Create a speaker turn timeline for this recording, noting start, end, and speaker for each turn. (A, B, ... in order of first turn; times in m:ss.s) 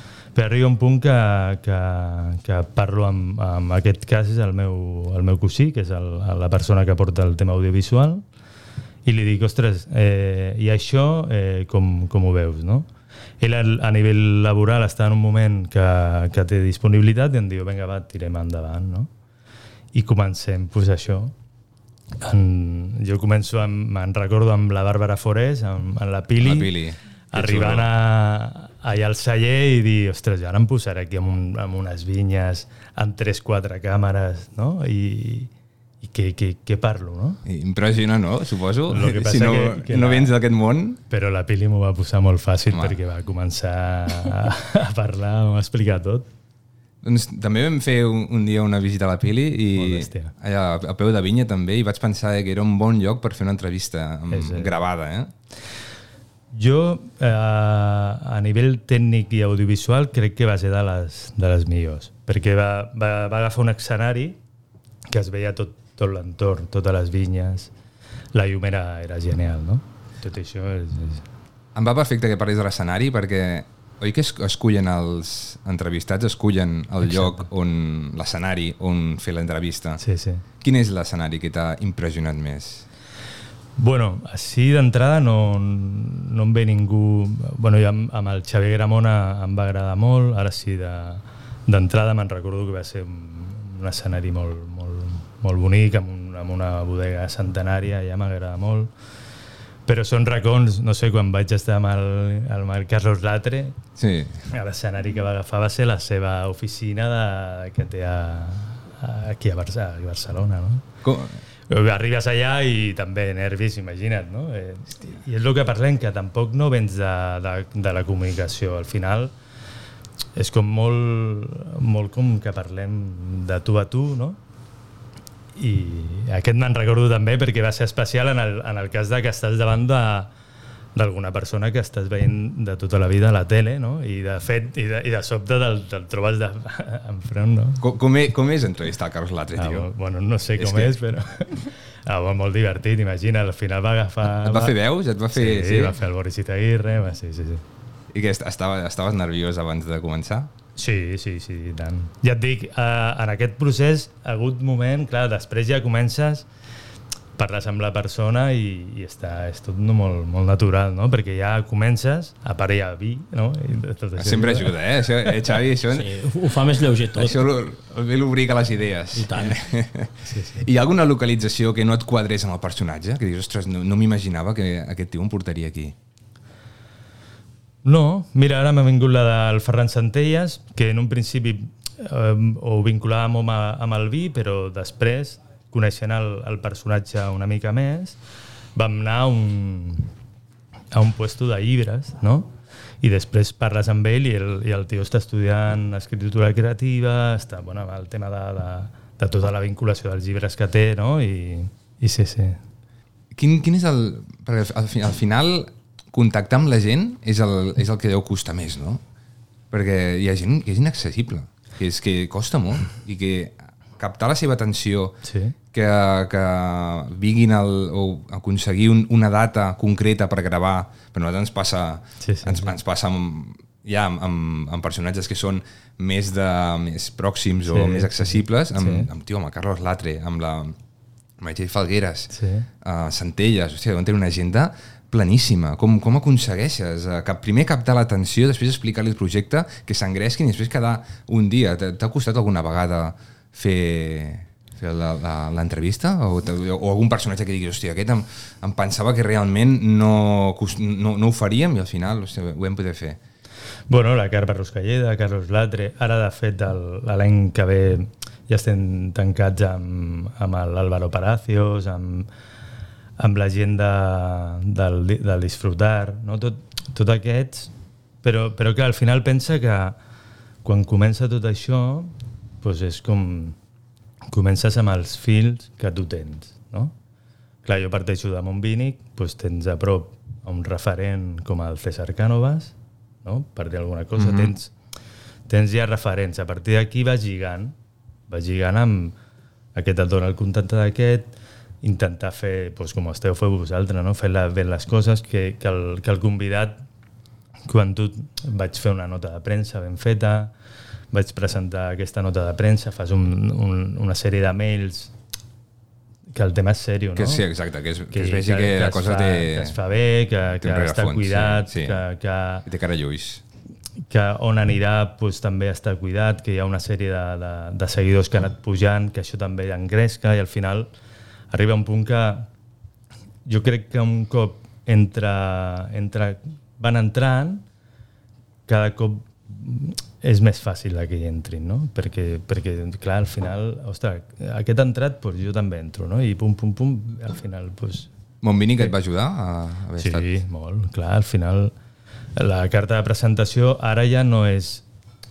0:00.4-0:08.2 A
0:09.0-0:12.9 A
0:13.4-0:19.1 A
0:19.9-0:21.3 A
0:22.2-0:26.8 A
0:26.4-0:27.9 B
0:27.3-0:35.5 A
0:36.0-0:37.4 A
0:37.5-0:41.0 B
0:38.9-0:40.4 A
0:41.1-0:46.3 A
0:42.7-0:43.0 B
0:47.0-0:55.3 B
0:49.8-0:50.3 A
0:54.3-0:54.8 A
0:56.5-1:04.4 A
1:05.1-1:07.7 A
1:08.3-1:11.2 A
1:11.8-1:20.0 B
1:17.0-1:17.4 A
1:20.0-1:20.4 A
1:20.6-1:22.9 B
1:23.8-1:38.9 A
1:39.9-1:43.8 A
1:44.0-1:44.4 B
1:44.5-1:50.8 A
1:51.0-1:51.4 B
1:51.7-1:59.3 A
2:00.4-2:04.4 A
2:05.6-2:10.3 A
2:11.0-2:17.8 A
2:17.8-2:19.9 B
2:19.6-2:24.8 A
2:20.6-2:21.0 B
2:24.4-2:26.0 B
2:25.3-2:27.6 A
2:28.1-2:30.5 B
2:30.8-2:36.5 A
2:37.4-2:44.8 A
2:44.2-2:46.2 B
2:45.9-2:47.4 C
2:47.1-2:56.0 B
2:49.2-2:49.6 C
2:50.2-2:50.7 A
2:57.8-3:08.2 A
3:08.8-3:10.1 A
3:10.9-3:12.5 A
3:13.0-3:22.6 A
3:23.3-3:29.0 B
3:29.7-3:35.2 B
3:35.2-3:35.6 A
3:35.7-3:50.8 B
3:42.2-3:42.8 A
3:47.7-3:49.1 A
3:51.4-4:13.2 B
3:52.3-3:52.7 A
4:13.9-4:22.3 A
4:23.2-4:27.7 A
4:28.2-4:30.0 A
4:30.6-4:33.6 A
4:34.3-4:36.9 A
4:37.6-4:44.7 A
4:44.2-4:44.5 B
4:45.5-4:47.7 A
4:48.3-4:49.2 A
4:49.8-4:51.3 A
4:51.8-4:56.8 A
4:57.7-5:00.5 A
5:01.1-5:05.1 A
5:06.3-5:07.5 A
5:07.2-5:09.8 B
5:08.1-5:12.7 A
5:10.6-5:12.0 B
5:12.6-5:13.4 B
5:14.1-5:20.9 A
5:21.5-5:22.5 A
5:23.5-5:27.6 A
5:28.7-5:38.1 A
5:38.4-5:40.4 B
5:40.0-5:41.7 A
5:42.4-5:44.8 A